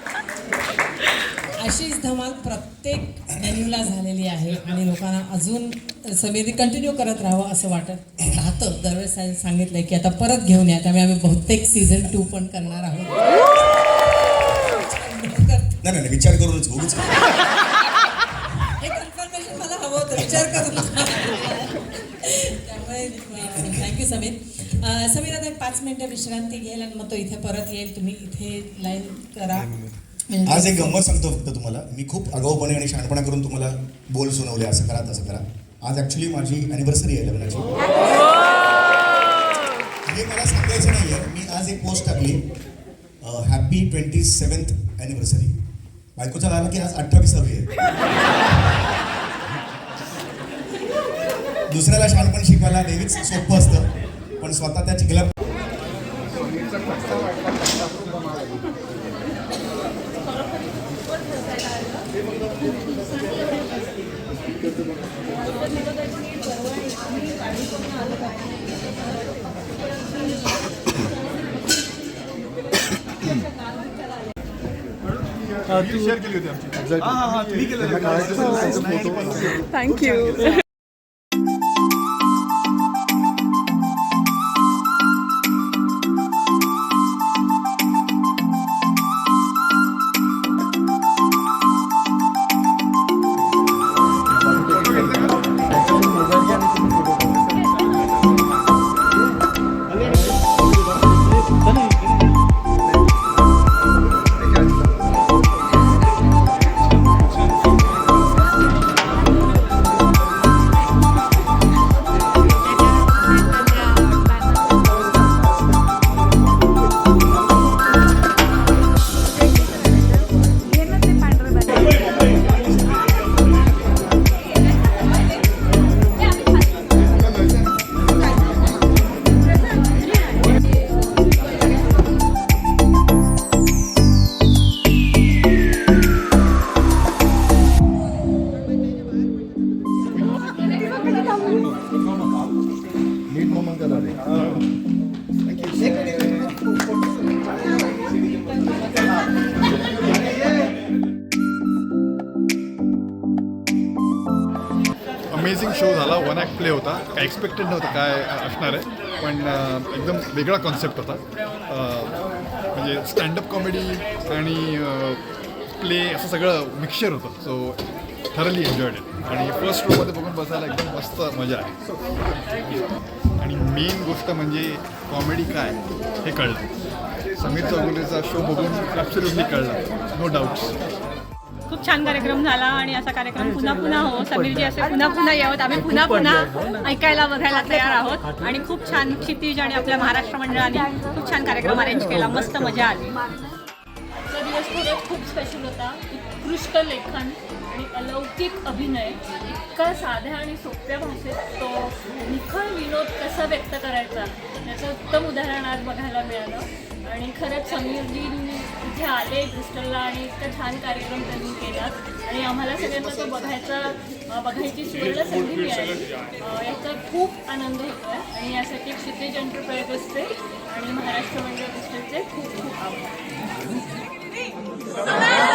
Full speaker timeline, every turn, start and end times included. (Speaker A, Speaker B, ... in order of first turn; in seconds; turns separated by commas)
Speaker A: 1.6-13.3, Speaker A: 14.7-15.7, Speaker B: 15.8-17.4, Speaker A: 18.8-29.7, Speaker A: 30.3-30.9, Speaker B: 30.4-38.2, Speaker B: 40.1-42.4, Speaker B: 43.2-45.5, Speaker B: 46.2-47.7, Speaker B: 51.7-53.9, Speaker B: 54.4-55.3, Speaker C: 56.4-58.2, Speaker C: 75.7-79.5, Speaker B: 77.0-79.6, Speaker D: 79.5-80.6, Speaker C: 94.7-95.4, Speaker D: 120.9-122.0, Speaker C: 155.3-162.2, Speaker C: 162.7-165.2, Speaker C: 165.8-167.8, Speaker C: 168.3-172.6, Speaker C: 173.4-176.6, Speaker C: 177.3-180.8, Speaker E: 181.7-193.2, Speaker F: 194.2-223.1